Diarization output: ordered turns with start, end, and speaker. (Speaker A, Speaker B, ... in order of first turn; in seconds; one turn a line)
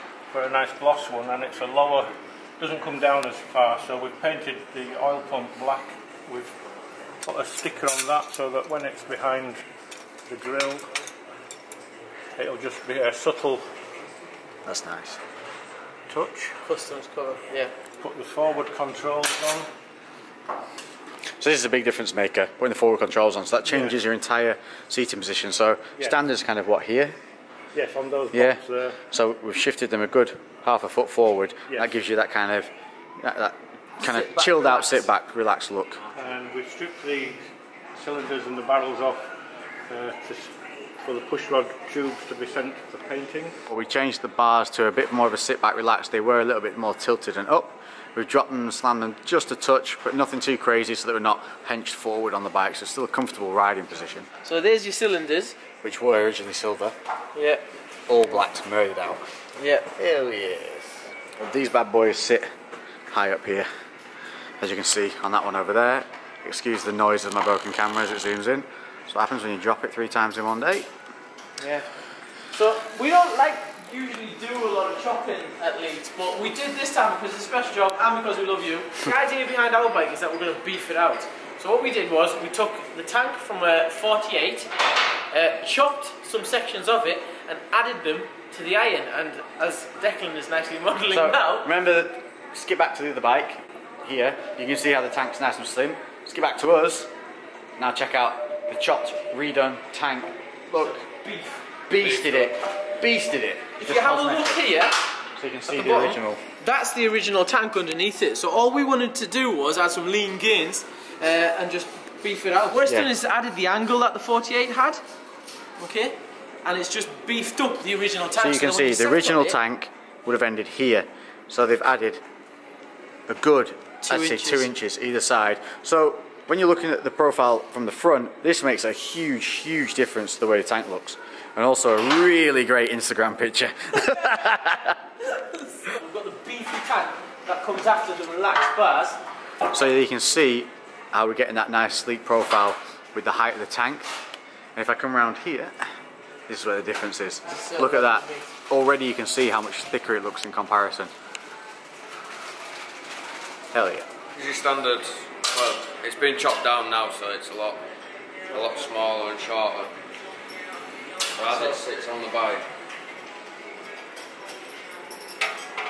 Speaker A: 0.3-6.5
Speaker A: 7.2-9.6
Speaker A: 10.3-10.9
Speaker A: 12.4-13.6
Speaker B: 14.7-15.2
Speaker A: 16.1-16.6
Speaker C: 16.7-17.7
Speaker A: 18.0-19.7
Speaker B: 21.4-27.2
Speaker A: 23.7-24.0
Speaker A: 27.7-29.0
Speaker B: 28.3-36.0
Speaker C: 34.0-35.1
Speaker A: 36.1-37.4
Speaker A: 38.0-39.3
Speaker A: 39.9-43.6
Speaker B: 43.7-54.3
Speaker C: 54.4-55.6
Speaker B: 55.8-57.0
Speaker C: 57.4-57.6
Speaker B: 58.1-59.2
Speaker C: 59.6-59.9
Speaker B: 60.0-62.5
Speaker B: 63.1-63.7
Speaker B: 64.6-70.9
Speaker C: 71.6-71.9
Speaker C: 72.5-84.7
Speaker C: 85.3-91.7
Speaker B: 91.1-97.1
Speaker B: 97.8-101.1
Speaker C: 100.8-101.6
Speaker B: 101.9-104.6
Speaker D: 102.0-102.5
Speaker C: 103.8-105.0
Speaker B: 105.4-106.4
Speaker C: 105.7-115.0
Speaker B: 112.8-113.1
Speaker C: 115.8-119.6
Speaker B: 118.4-122.2
Speaker B: 123.3-135.0
Speaker C: 124.0-124.7
Speaker C: 135.3-139.2
Speaker B: 139.7-144.1
Speaker B: 144.8-145.7
Speaker B: 146.5-151.1
Speaker C: 147.5-148.5
Speaker B: 153.7-154.1
Speaker D: 154.3-157.8
Speaker D: 158.5-159.9
Speaker D: 161.4-162.7